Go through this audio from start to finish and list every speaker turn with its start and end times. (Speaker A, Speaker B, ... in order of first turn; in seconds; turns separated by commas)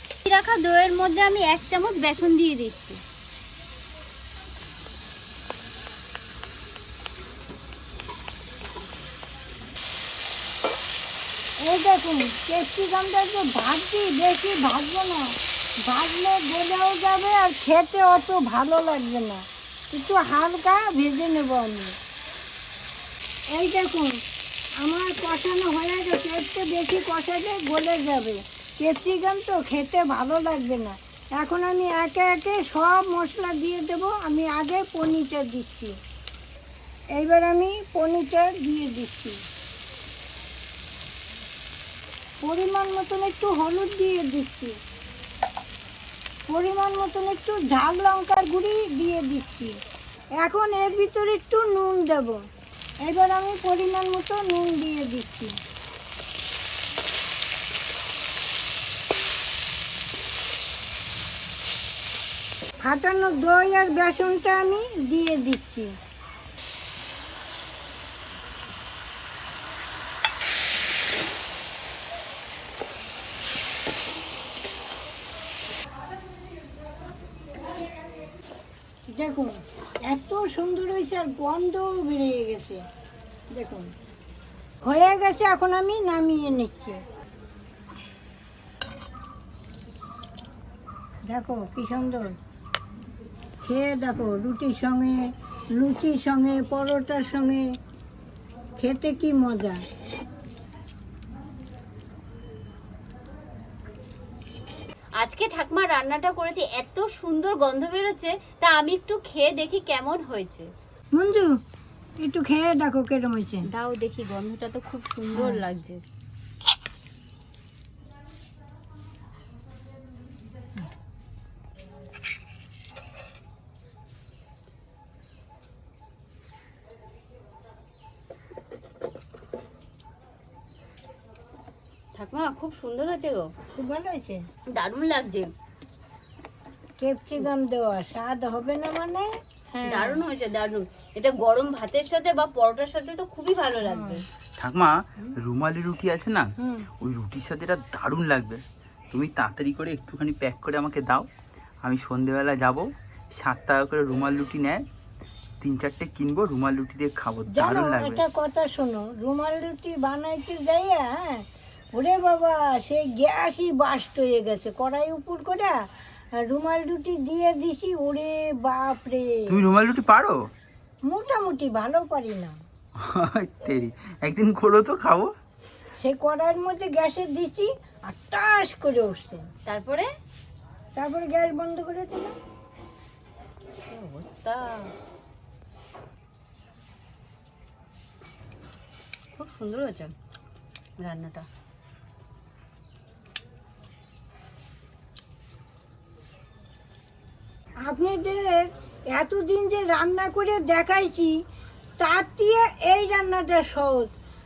Speaker A: 0.2-3.0, Speaker B: 11.6-15.3, Speaker B: 15.8-21.9, Speaker B: 23.5-24.1, Speaker B: 24.8-35.9, Speaker B: 37.1-39.4, Speaker B: 42.4-44.7, Speaker B: 46.5-49.7, Speaker B: 50.4-52.4, Speaker B: 53.0-55.5, Speaker B: 62.8-65.9, Speaker B: 79.1-79.6, Speaker B: 80.1-82.8, Speaker B: 83.5-83.9, Speaker B: 84.8-87.0, Speaker B: 91.3-92.3, Speaker B: 93.6-95.2, Speaker B: 95.8-97.6, Speaker B: 98.8-99.8, Speaker A: 105.2-110.7, Speaker B: 111.1-111.5, Speaker B: 112.2-113.7, Speaker A: 113.7-116.0, Speaker B: 115.3-115.6, Speaker A: 132.2-133.5, Speaker B: 133.7-134.4, Speaker A: 134.7-135.5, Speaker B: 137.0-140.2, Speaker A: 139.8-144.2, Speaker B: 143.8-144.2, Speaker C: 144.6-151.3, Speaker B: 146.6-146.9, Speaker C: 151.8-154.8, Speaker C: 155.6-158.2, Speaker B: 157.5-165.8, Speaker B: 166.4-169.6, Speaker C: 169.5-170.4, Speaker B: 171.1-172.6, Speaker C: 173.0-175.3, Speaker B: 176.0-179.4, Speaker A: 179.7-180.1, Speaker B: 180.9-182.3, Speaker A: 183.9-184.9, Speaker A: 189.3-190.1, Speaker A: 191.0-191.4, Speaker B: 197.8-201.3, Speaker B: 202.0-204.1